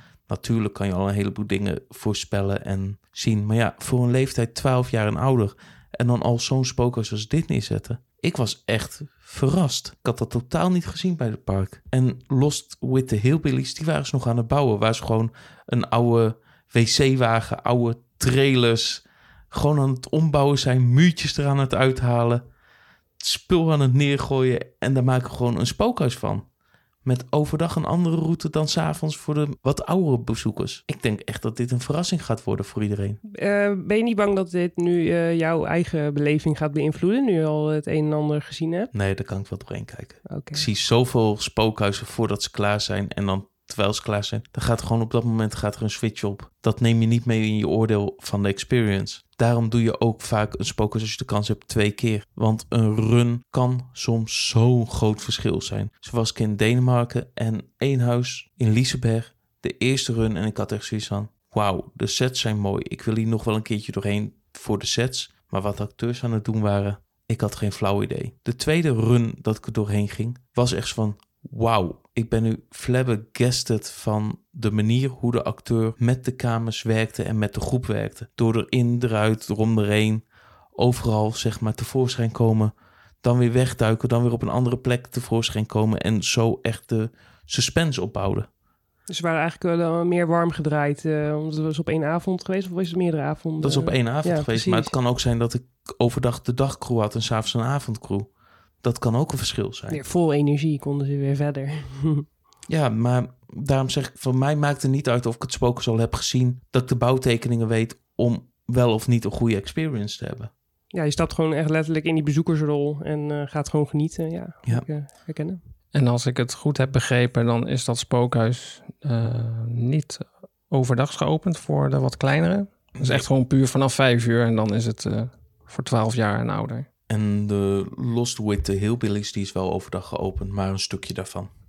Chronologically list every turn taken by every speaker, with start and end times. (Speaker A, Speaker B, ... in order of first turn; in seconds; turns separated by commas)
Speaker A: 0.3-22.4, Speaker A: 23.2-26.5, Speaker A: 27.0-33.2, Speaker B: 33.2-38.9, Speaker A: 38.9-80.2, Speaker B: 40.2-40.6, Speaker A: 80.7-82.7, Speaker A: 83.2-88.5, Speaker B: 89.1-94.9, Speaker A: 93.6-98.3, Speaker A: 98.8-100.0, Speaker B: 99.9-102.3, Speaker A: 102.7-110.5, Speaker B: 110.9-115.6, Speaker C: 115.9-126.9, Speaker A: 122.9-123.2, Speaker A: 127.1-131.5